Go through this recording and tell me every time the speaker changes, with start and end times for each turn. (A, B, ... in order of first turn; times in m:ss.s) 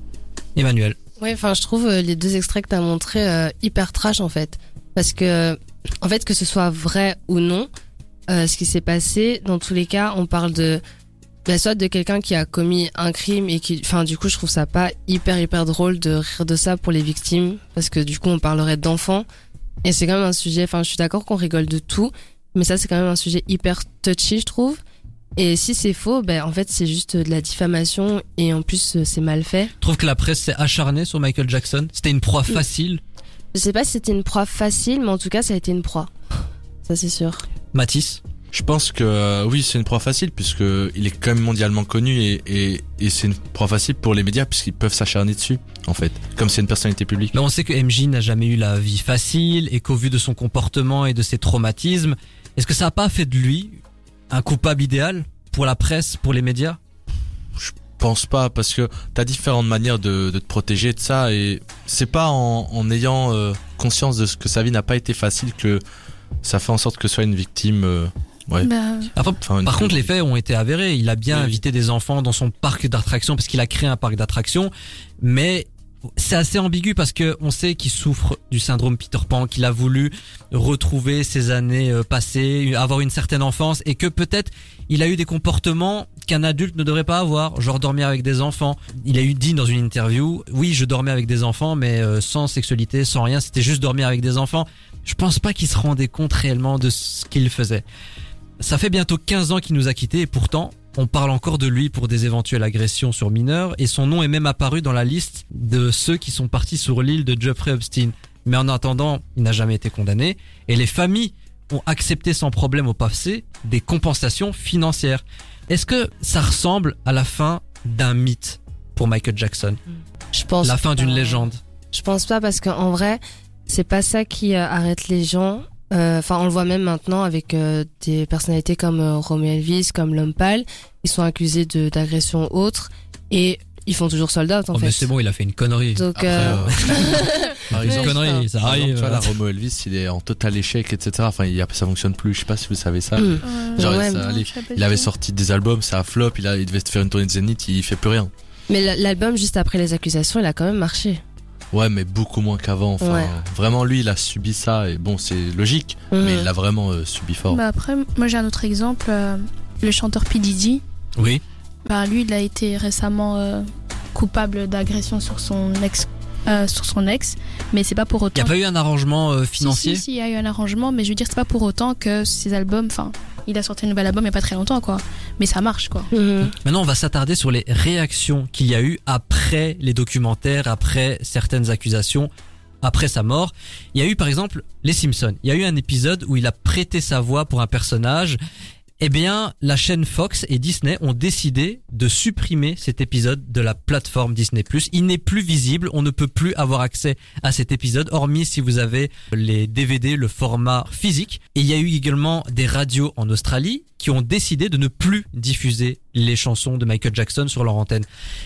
0:00.5-0:01.0 A
0:01.2-0:07.7 B
0:08.3-0:10.8 B
0:11.4-0:19.2 B
0:19.8-0:24.8 B
0:25.4-0:29.7 B
0:29.8-0:33.0 A
0:33.5-0:36.1 B
0:36.8-0:37.4 B
0:37.7-0:38.2 A
0:38.5-0:47.4 C
0:47.3-0:53.8 A
0:54.3-0:56.8 A
0:57.6-1:05.8 C
1:06.4-1:08.7 C
1:08.6-1:09.1 D
1:09.2-1:37.8 A
1:09.4-1:10.1 C
1:11.3-1:11.6 C
1:38.6-1:59.8 A
2:00.3-2:15.1 B
2:00.6-2:01.6 A
2:14.7-2:19.3 A
2:16.0-2:18.4 B
2:16.2-2:16.9 C
2:17.7-2:28.3 C
2:23.2-2:24.2 B
2:23.4-2:25.1 D
2:28.7-2:31.2 B
2:31.7-2:37.6 C
2:33.0-2:33.3 B
2:36.1-2:36.5 B
2:37.5-2:40.8 D
2:41.2-2:41.4 A
2:41.9-2:43.6 D
2:44.1-2:48.6 D
2:48.3-2:50.0 A
2:49.6-2:56.1 D
2:56.1-2:56.5 B
2:56.5-3:02.3 A
3:02.8-3:08.4 A
3:09.0-3:28.1 A